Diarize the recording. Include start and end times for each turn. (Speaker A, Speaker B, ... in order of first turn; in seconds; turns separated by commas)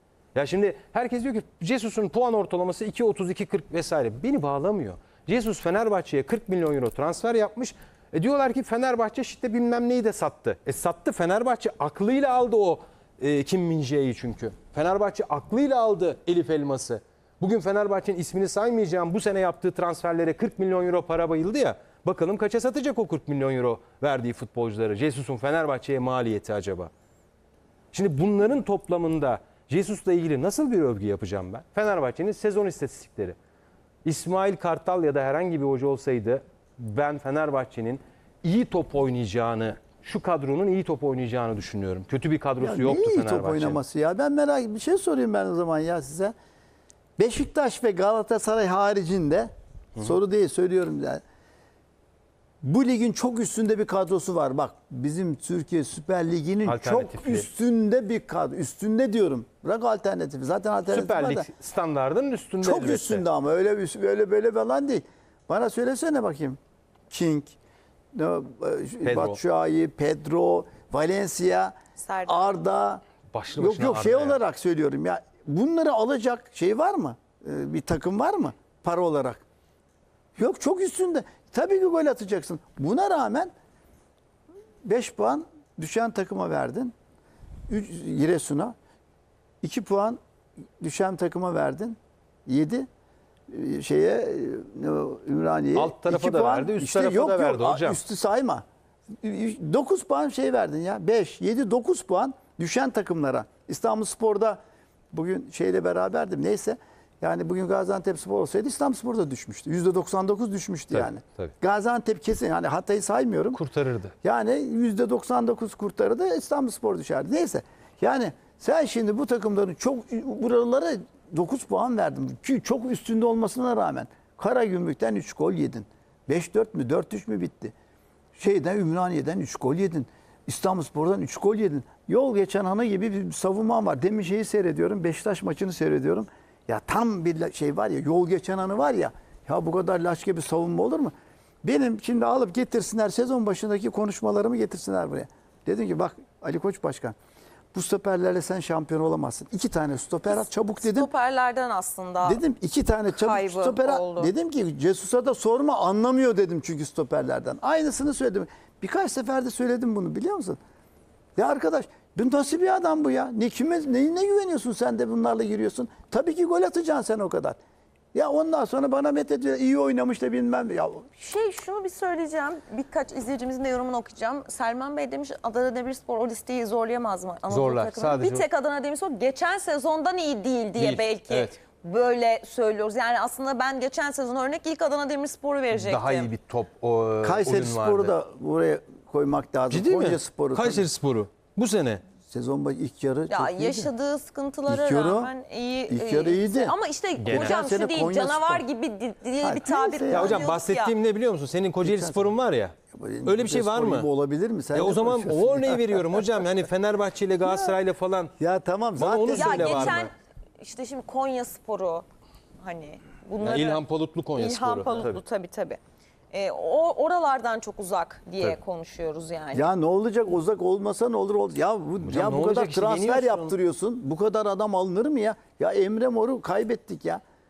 Speaker A: 0.3-26.9, Speaker A: 27.9-33.4, Speaker A: 34.0-43.8, Speaker B: 42.6-46.3, Speaker B: 47.2-51.2, Speaker B: 52.6-61.5, Speaker A: 56.6-57.5, Speaker A: 60.9-63.3, Speaker B: 62.6-66.6, Speaker B: 67.1-67.6, Speaker B: 68.1-71.7, Speaker A: 69.0-69.4, Speaker C: 72.0-72.6, Speaker B: 72.3-73.0, Speaker A: 73.3-74.4, Speaker B: 73.6-79.4, Speaker B: 80.4-83.5, Speaker B: 84.8-86.9, Speaker B: 87.7-88.7, Speaker B: 89.6-90.2, Speaker B: 90.8-92.9, Speaker B: 93.5-98.6, Speaker A: 95.8-98.0, Speaker B: 99.2-104.6, Speaker B: 105.1-113.6, Speaker A: 110.9-111.5, Speaker A: 113.5-114.2, Speaker B: 114.2-127.7, Speaker B: 128.4-147.2, Speaker B: 147.7-151.1, Speaker C: 150.3-152.4, Speaker B: 152.2-160.6, Speaker C: 153.1-154.3, Speaker B: 161.4-167.6, Speaker B: 168.1-171.1, Speaker C: 171.2-186.3, Speaker A: 177.5-178.5, Speaker A: 180.8-181.6, Speaker A: 185.7-188.1, Speaker B: 187.2-190.9, Speaker A: 189.7-192.0, Speaker B: 192.3-193.9, Speaker C: 193.3-200.9, Speaker B: 194.7-195.3, Speaker B: 195.9-196.8, Speaker A: 197.2-197.6, Speaker B: 197.3-198.7, Speaker B: 199.4-200.5, Speaker A: 200.1-204.1, Speaker B: 201.8-202.3, Speaker B: 202.9-206.4, Speaker A: 204.7-208.3, Speaker B: 207.4-207.7, Speaker B: 208.4-210.0, Speaker A: 209.0-210.1, Speaker C: 209.4-212.1, Speaker C: 212.6-213.8, Speaker A: 213.4-215.2, Speaker C: 214.3-215.8, Speaker C: 216.3-219.7, Speaker B: 219.5-227.2, Speaker A: 222.0-223.6